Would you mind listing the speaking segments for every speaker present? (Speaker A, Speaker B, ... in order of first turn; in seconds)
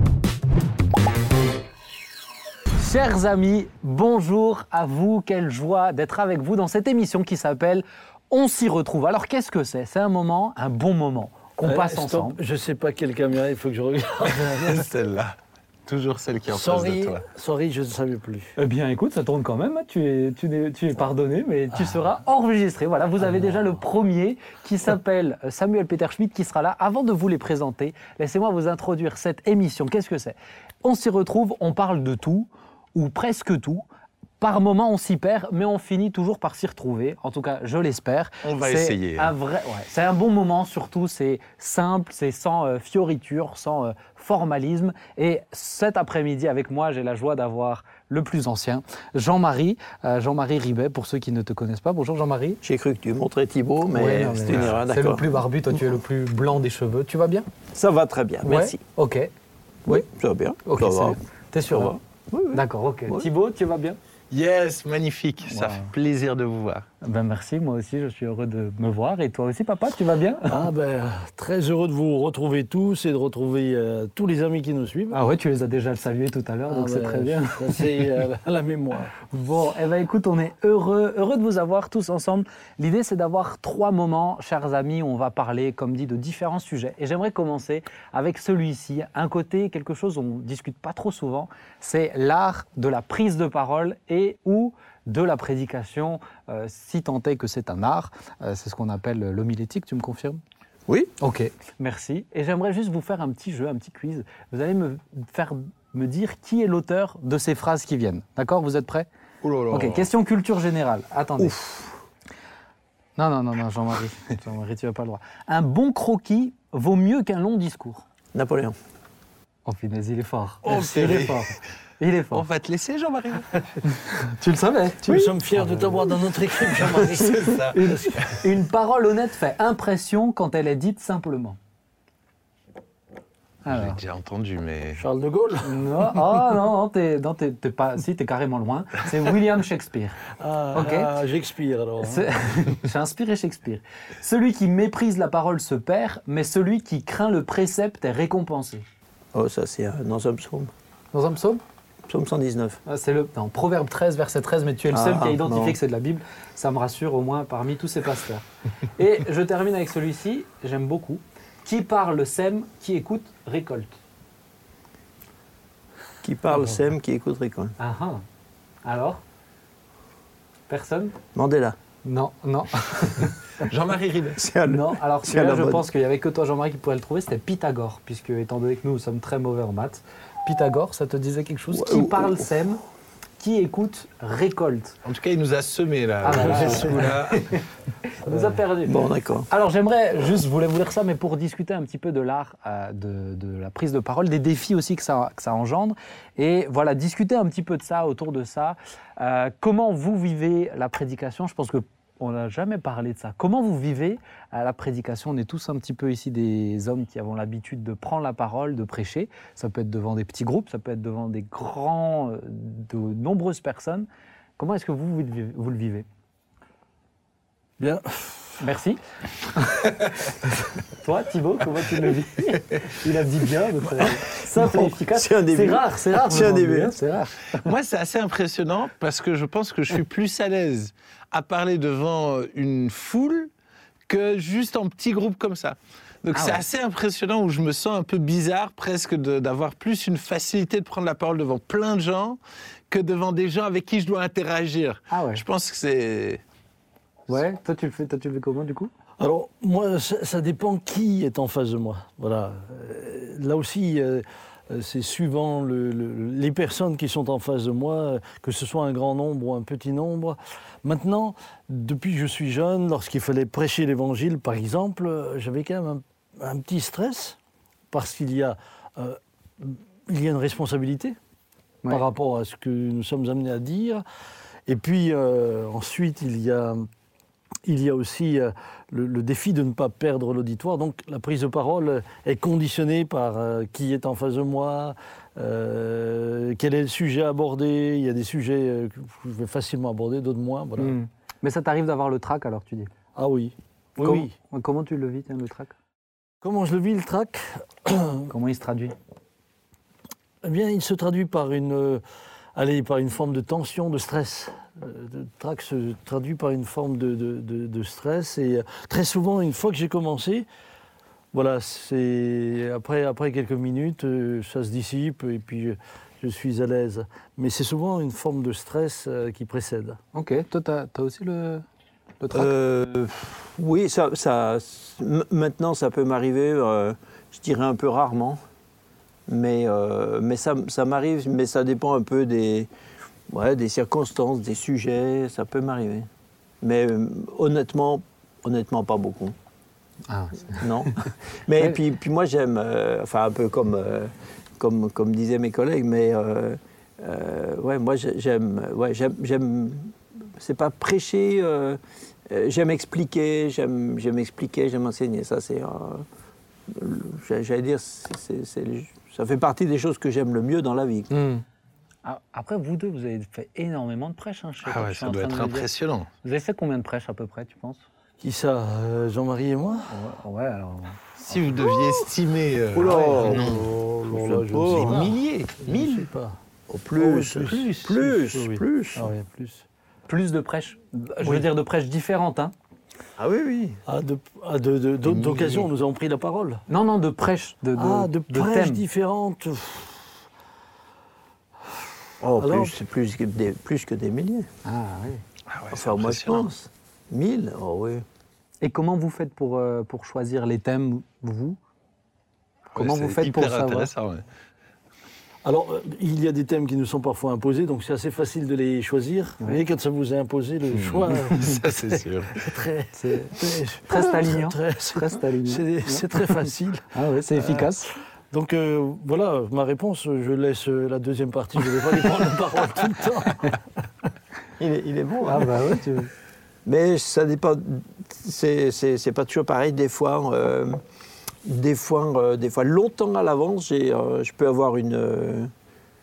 Speaker A: 2.8-12.4, 18.6-33.8, 34.4-52.6, 53.9-57.5, 58.5-59.3, 60.6-62.0, 62.5-64.0, 65.5-65.9, 67.0-70.6, 75.1-78.1, 79.3-100.4, 101.2-109.1, 109.7-112.0, 113.2-118.0, 119.7-122.5, 124.0-125.0, 127.7-131.6, 133.7-134.0, 135.6-140.2, 140.7-141.1, 142.0-148.8, 151.1-151.6, 152.9-163.9, 167.8-168.2, 168.8-169.2, 170.7-171.2, 172.0-173.4, 174.7-182.8, 183.4-185.0, 186.2-214.1, 214.6-216.1, 218.6-219.0, 219.5-219.9, 221.0-227.7, 236.3-236.6, 245.1-245.4, 247.3-248.9, 290.8-292.9, 294.0-295.8, 298.3-298.9, 320.1-321.6, 322.2-322.5, 340.1-341.8, 361.1-361.4, 362.0-365.7, 366.2-367.9, 369.9-371.0, 380.1-382.5, 386.7-388.8, 394.6-395.2, 398.6-401.6, 402.7-403.9, 412.9-417.9, 425.2-426.1
Speaker B: 11.7-14.9, 16.5-18.6, 70.5-75.2, 76.7-79.1, 125.1-128.0, 135.0-135.8, 140.4-142.3, 186.3-187.1, 217.8-218.6, 249.2-267.4, 267.9-271.2, 271.9-274.0, 274.7-276.9, 277.6-290.9, 293.1-294.3, 296.4-298.3, 300.4-302.0, 302.6-310.5, 311.3-320.0, 368.2-369.9, 372.8-376.4, 377.0-379.6, 383.9-386.6, 387.8-390.1, 392.4-392.8, 405.4-417.8, 418.3-423.8
Speaker C: 14.3-17.2, 38.4-39.3, 54.5-54.8, 64.3-66.9, 109.4-110.1, 120.7-121.5, 122.3-123.7, 127.2-128.4, 133.7-135.0, 173.6-174.4, 185.1-187.6, 227.6-233.5, 234.1-242.4, 242.9-246.4, 364.6-366.1, 371.2-373.7, 374.7-376.1, 385.1-385.6, 395.5-396.5, 402.7-404.2, 410.7-412.5
Speaker D: 52.6-55.4, 57.7-58.8, 59.9-61.2, 61.7-63.3, 118.3-118.8, 125.1-125.3, 149.3-150.7, 152.1-152.8, 154.9-155.8, 166.2-167.8, 171.3-171.8, 174.4-175.8, 181.7-182.5, 188.9-189.5, 224.6-227.0, 322.3-328.4, 329.3-332.7, 333.3-336.1, 336.6-339.4, 340.6-356.1, 356.7-361.1, 371.8-372.0, 372.7-375.1, 376.7-379.1, 383.2-383.8, 392.2-394.5, 395.7-398.1, 424.6-425.6, 426.7-430.8, 431.4-435.5